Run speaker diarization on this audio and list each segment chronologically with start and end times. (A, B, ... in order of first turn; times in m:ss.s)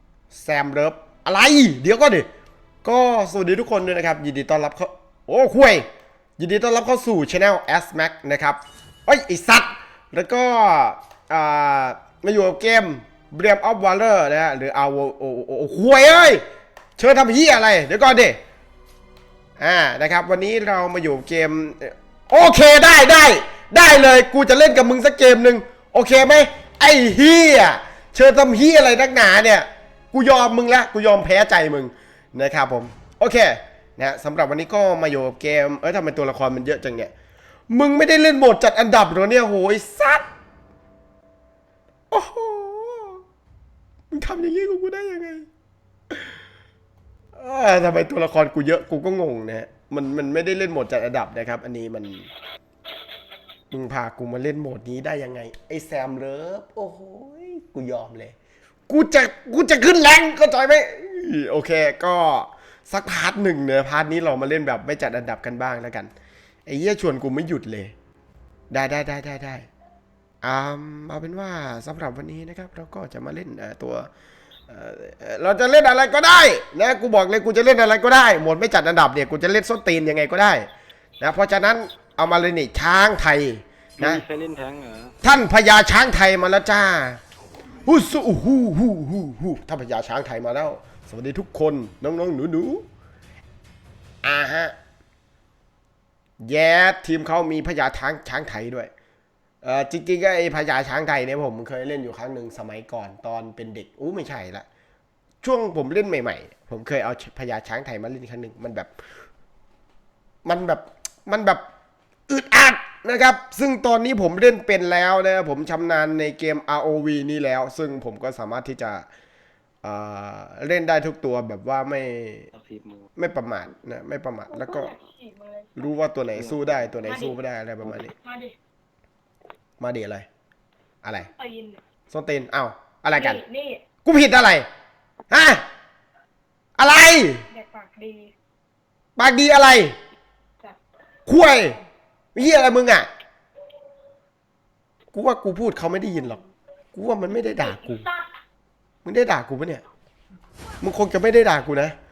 0:00.3-0:02.3 A
0:02.8-0:05.9 A
0:06.4-0:16.4 A
0:17.0-0:18.4 A
0:19.6-0:37.1 A
0:37.7-0:40.3 A
0:42.1-0:43.2 A
0:44.1-0:45.5 A
0:46.1-0:46.4 A
0:47.3-0:52.3 A
0:53.7-0:58.4 A
0:58.9-1:06.1 A
1:06.6-1:07.9 A
1:08.7-1:09.7 A
1:10.4-1:14.1 A
1:14.7-1:20.7 A
1:21.2-1:24.2 A
1:24.0-1:25.1 B
1:25.2-1:27.2 A
1:27.8-1:32.8 A
1:34.2-1:34.8 A
1:36.4-1:38.9 A
1:39.6-1:44.6 A
1:45.4-1:48.9 A
1:50.4-1:51.6 A
1:52.3-1:59.1 A
1:59.8-2:02.5 A
2:02.5-2:03.1 B
2:03.2-2:04.9 A
2:04.5-2:05.8 C
2:05.8-2:08.1 A
2:06.4-2:06.6 B
2:07.0-2:07.4 C
2:08.0-2:08.5 C
2:09.8-2:10.3 A
2:11.0-2:11.3 A
2:11.2-2:11.8 C
2:12.1-2:13.4 A
2:13.1-2:13.8 C
2:14.0-2:14.7 A
2:15.3-2:15.7 A
2:16.8-2:17.5 A
2:17.5-2:18.3 C
2:19.2-2:20.0 A
2:21.3-2:21.8 A
2:22.3-2:23.1 A
2:25.1-2:26.4 A
2:26.9-2:28.1 A
2:29.0-2:29.8 A
2:30.8-2:32.0 A